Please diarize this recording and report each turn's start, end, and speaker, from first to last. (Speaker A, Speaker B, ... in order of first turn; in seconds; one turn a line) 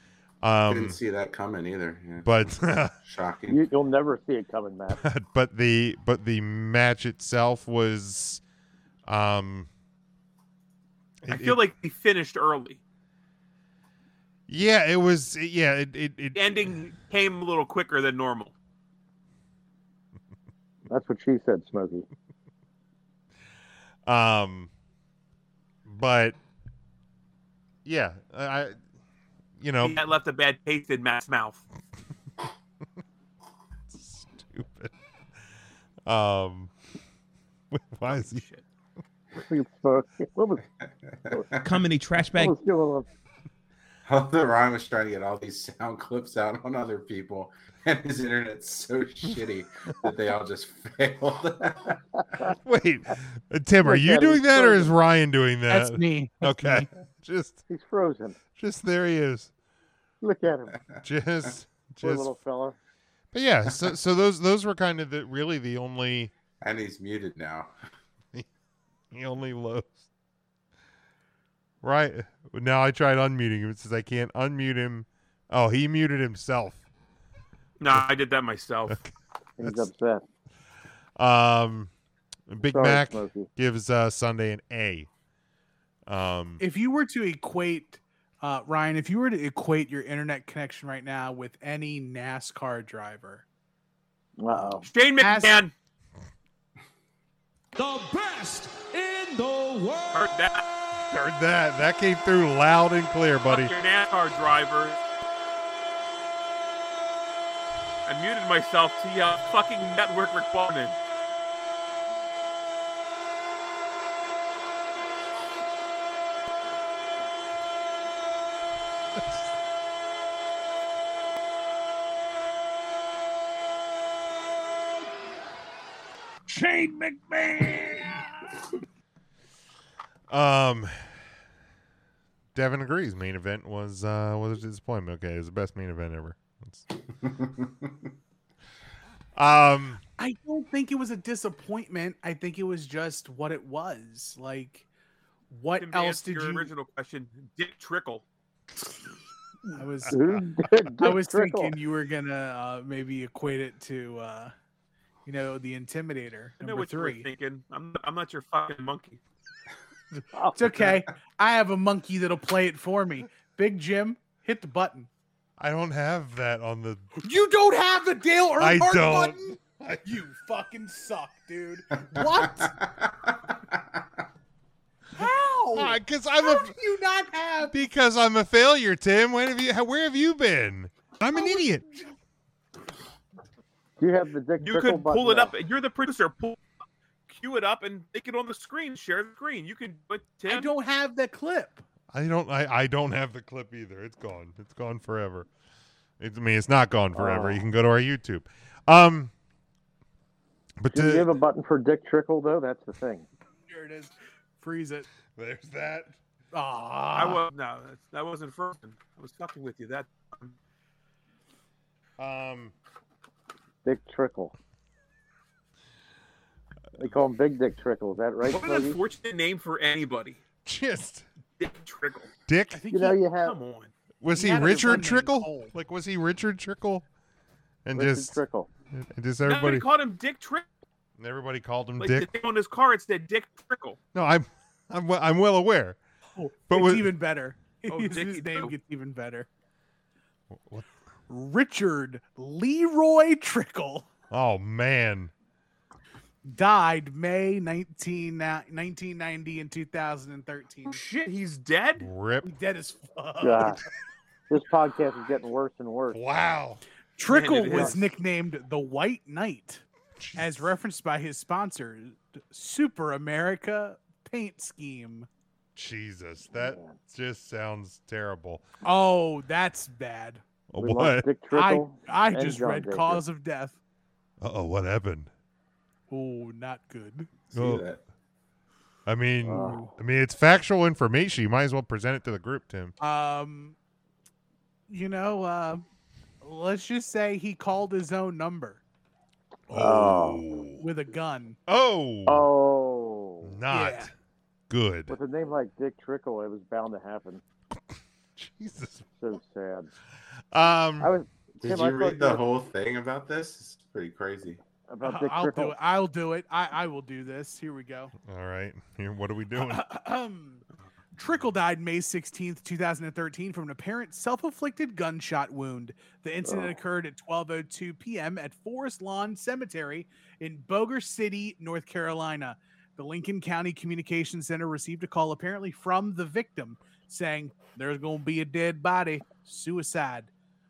Speaker A: 0.4-1.0
Speaker B: 0.7-2.5
Speaker A: 2.2-2.9
Speaker B: 3.0-3.6
Speaker C: 3.5-5.0
Speaker A: 4.9-8.4
Speaker A: 9.1-9.7
Speaker A: 11.2-11.6
Speaker D: 11.3-12.8
Speaker A: 14.5-16.7
Speaker D: 16.3-18.5
Speaker C: 20.9-22.1
Speaker A: 24.1-24.7
Speaker A: 25.8-26.4
Speaker A: 27.8-28.8
Speaker A: 29.6-30.0
Speaker D: 29.8-31.6
Speaker A: 33.9-34.9
Speaker A: 36.0-36.7
Speaker A: 37.7-38.4
Speaker D: 38.0-38.6
Speaker C: 39.3-40.6
Speaker B: 41.1-41.7
Speaker D: 41.6-42.5
Speaker C: 42.3-43.1
Speaker B: 44.1-52.0
Speaker A: 52.5-57.6
Speaker C: 53.8-54.9
Speaker E: 55.7-56.9
Speaker C: 57.7-58.4
Speaker A: 58.6-59.5
Speaker C: 60.2-60.8
Speaker A: 61.0-62.4
Speaker C: 62.0-62.8
Speaker A: 63.3-66.3
Speaker B: 66.6-67.7
Speaker A: 69.1-70.0
Speaker A: 71.8-76.8
Speaker D: 77.8-79.0
Speaker C: 79.6-80.2
Speaker A: 79.6-79.9
Speaker A: 81.2-81.9
Speaker A: 82.5-85.1
Speaker C: 82.7-83.5
Speaker A: 86.1-86.6
Speaker E: 86.6-93.4
Speaker C: 94.4-94.9
Speaker D: 94.9-95.7
Speaker E: 95.2-95.6
Speaker F: 97.7-100.3
Speaker D: 100.1-100.6
Speaker A: 101.1-103.7
Speaker D: 103.5-105.0
Speaker D: 108.0-111.0
Speaker F: 126.5-128.3
Speaker A: 130.3-131.1
Speaker A: 132.5-136.8
Speaker B: 137.2-137.9
Speaker A: 139.3-140.0
Speaker E: 140.2-144.8
Speaker E: 145.5-146.7
Speaker D: 145.8-148.2
Speaker E: 149.7-150.2
Speaker C: 150.1-151.7
Speaker E: 151.0-154.5
Speaker E: 155.2-157.3
Speaker D: 156.6-159.2
Speaker E: 160.1-165.1
Speaker C: 160.3-160.6
Speaker A: 165.6-167.1
Speaker E: 167.2-172.7
Speaker A: 168.6-170.1
Speaker B: 172.1-174.0
Speaker E: 175.1-177.8
Speaker A: 175.7-176.7
Speaker A: 177.7-181.8
Speaker E: 181.3-182.0
Speaker C: 184.0-185.5
Speaker D: 184.6-186.6
Speaker D: 187.3-190.7
Speaker E: 190.5-191.8
Speaker A: 192.1-195.5
Speaker A: 196.2-199.3
Speaker C: 197.1-197.6
Speaker A: 200.8-201.3
Speaker C: 200.9-203.3
Speaker E: 203.7-205.1
Speaker A: 205.3-206.2
Speaker E: 206.5-207.4
Speaker D: 207.2-210.6
Speaker A: 212.2-212.7
Speaker C: 213.8-214.5
Speaker C: 216.9-219.0
Speaker D: 218.4-220.4
Speaker A: 220.6-221.2
Speaker D: 221.6-222.3
Speaker A: 222.5-222.8
Speaker E: 222.7-223.2
Speaker C: 222.9-223.6
Speaker D: 223.4-223.9
Speaker A: 224.2-227.1
Speaker E: 224.3-225.7
Speaker A: 227.8-228.4
Speaker C: 227.9-228.7
Speaker A: 228.9-229.8
Speaker D: 229.4-230.7
Speaker A: 231.2-232.3
Speaker D: 232.0-234.0
Speaker A: 234.1-236.0
Speaker E: 236.3-239.5
Speaker A: 236.7-237.1
Speaker D: 237.9-238.7
Speaker A: 240.5-240.9
Speaker E: 241.3-244.1
Speaker A: 244.3-245.3
Speaker E: 246.4-251.0
Speaker D: 250.8-252.1
Speaker A: 252.0-252.5
Speaker E: 252.4-253.8
Speaker C: 253.4-253.8
Speaker C: 254.5-256.2
Speaker A: 256.1-256.8
Speaker E: 257.2-259.8
Speaker D: 257.2-257.9
Speaker C: 257.7-258.0
Speaker A: 260.2-260.7
Speaker E: 260.4-265.3
Speaker A: 265.8-268.6
Speaker C: 266.5-266.9
Speaker E: 268.8-270.4
Speaker A: 270.7-271.3
Speaker C: 270.8-273.2
Speaker E: 271.5-273.8
Speaker A: 274.4-275.3
Speaker E: 276.1-277.3
Speaker B: 277.5-278.0
Speaker A: 277.5-277.8
Speaker A: 279.1-282.9
Speaker C: 279.4-279.9
Speaker E: 283.0-283.8
Speaker E: 284.9-285.8
Speaker E: 286.4-288.8
Speaker A: 289.7-290.8
Speaker C: 289.7-290.4
Speaker E: 290.8-291.6
Speaker A: 291.7-292.5
Speaker C: 292.2-293.6
Speaker A: 293.4-294.1
Speaker E: 293.7-294.1
Speaker A: 294.7-295.1
Speaker C: 295.1-297.4
Speaker A: 298.4-299.1
Speaker C: 299.2-299.9
Speaker A: 300.5-301.1
Speaker C: 301.0-302.4
Speaker B: 301.6-304.6
Speaker C: 304.9-305.8
Speaker E: 305.0-308.1
Speaker A: 308.2-309.8
Speaker E: 309.6-310.6
Speaker E: 311.2-330.3
Speaker C: 316.4-316.8